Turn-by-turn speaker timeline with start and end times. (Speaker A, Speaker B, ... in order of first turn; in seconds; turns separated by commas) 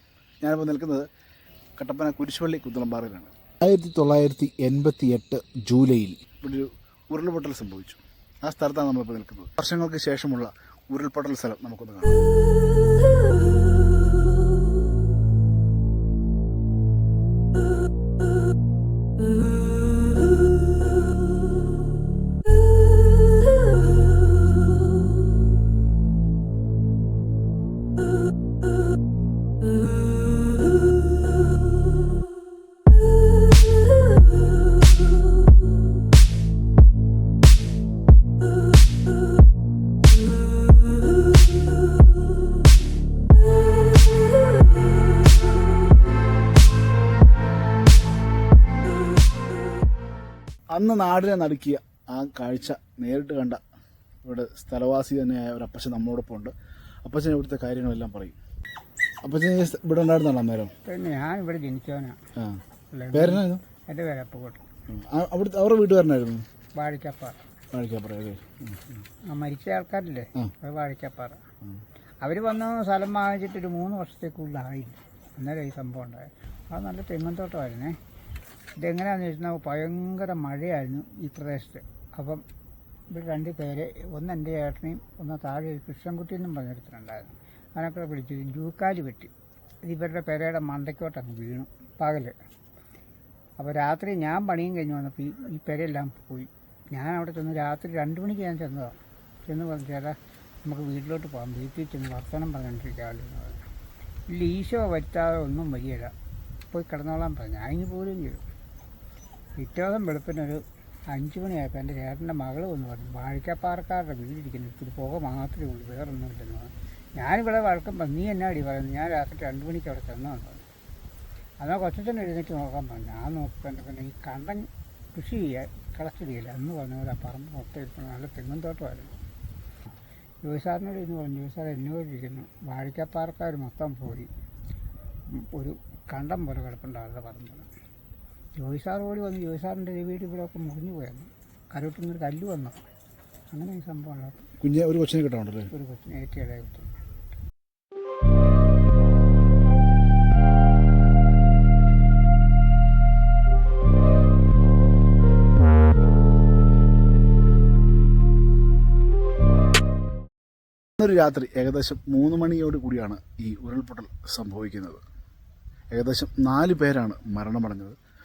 Speaker A: 0.4-1.1, Speaker A: 1.8-12.3, Speaker A: 50.7-53.6, Speaker A: 54.2-56.5, Speaker A: 57.0-58.4, Speaker A: 59.2-60.7, Speaker B: 60.8-62.2, Speaker A: 62.4-62.6, Speaker B: 62.9-64.7, Speaker A: 63.1-63.6, Speaker A: 64.9-66.4, Speaker B: 66.7-67.4, Speaker A: 67.7-69.0, Speaker B: 69.2-71.4, Speaker B: 72.2-78.0, Speaker B: 78.8-82.4, Speaker B: 83.1-89.3, Speaker B: 89.8-92.3, Speaker B: 93.6-103.7, Speaker B: 104.3-106.1, Speaker B: 106.7-108.4, Speaker B: 109.6-120.7, Speaker B: 121.6-129.2, Speaker B: 130.4-134.3, Speaker B: 135.3-137.7, Speaker B: 138.6-142.8, Speaker B: 143.5-144.5, Speaker A: 144.6-145.7, Speaker B: 145.7-146.9, Speaker A: 161.0-165.0, Speaker A: 165.9-167.9